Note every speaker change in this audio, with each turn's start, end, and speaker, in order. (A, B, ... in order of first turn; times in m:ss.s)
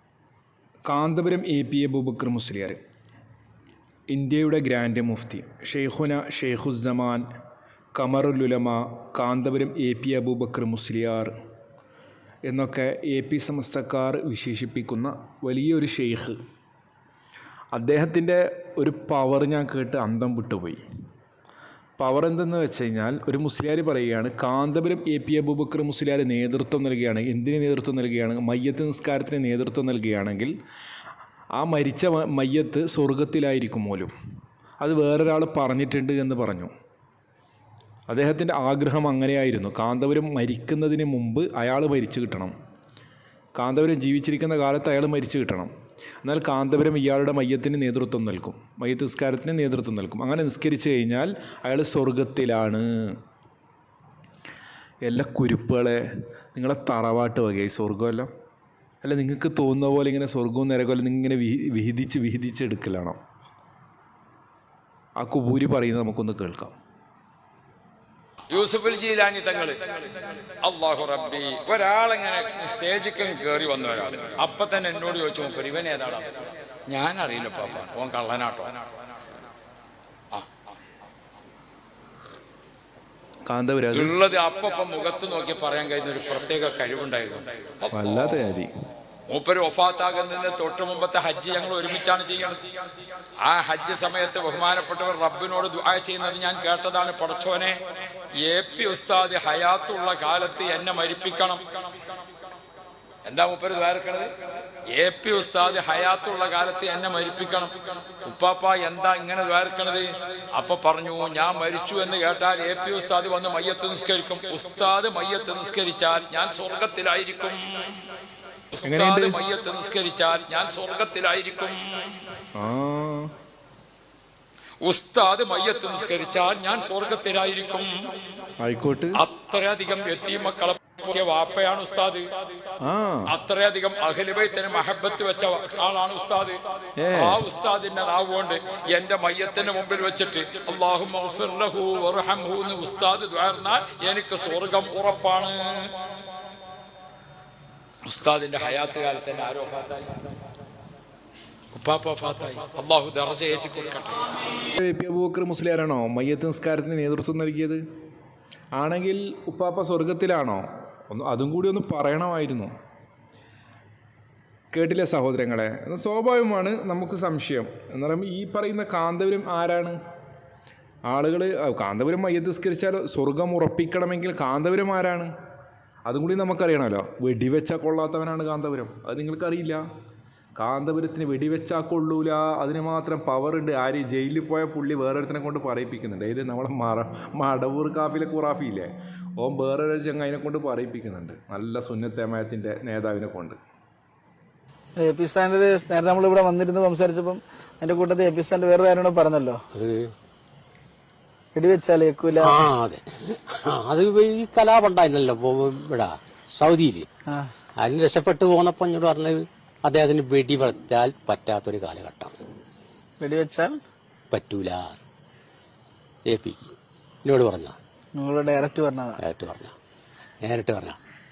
0:00.8-0:02.8 A
0:04.1-0:07.2 A
0:08.0-0:11.3 A
0:12.5-0:16.4 A
0:17.7-0:20.8 A
0:22.0-0:30.5 A
0:31.6-0:34.1 A
0:34.8-0:36.7 A
0:38.1-0:42.5 A
0:43.6-0:45.7 A
0:46.2-0:53.2 A
0:55.0-0:56.0 A
0:56.6-0:58.3 A
0:59.0-1:03.2 A
1:05.2-1:06.7 A
1:08.5-1:09.8 B
1:10.6-1:16.3 B
1:16.9-1:18.8 B
1:23.4-1:24.1 A
1:23.9-1:28.2 B
1:27.9-1:28.7 A
1:29.3-1:32.6 B
1:33.4-1:37.8 B
1:38.4-1:41.6 B
1:43.2-1:44.3 B
1:44.9-1:47.7 B
1:48.2-1:58.0 B
1:58.7-2:02.1 B
1:58.8-1:59.4 A
2:02.6-2:03.3 A
2:04.8-2:07.9 B
2:08.6-2:09.2 A
2:09.2-2:12.2 B
2:12.8-2:13.3 A
2:13.3-2:16.6 B
2:17.0-2:17.4 A
2:17.1-2:25.9 B
2:28.1-2:30.3 B
2:31.7-2:34.3 B
2:34.8-2:37.8 A
2:38.8-2:42.7 A
2:44.7-2:50.0 A
2:51.1-2:55.3 A
2:56.1-2:59.8 A
3:00.6-3:13.6 A
3:15.0-3:19.6 C
3:19.8-3:20.1 D
3:21.6-3:22.7 C
3:22.4-3:27.1 D
3:27.8-3:32.4 D
3:33.2-3:33.8 C
3:34.3-3:35.0 D
3:36.2-3:37.8 D
3:38.1-3:39.2 C
3:39.2-3:39.7 D
3:40.4-3:41.0 D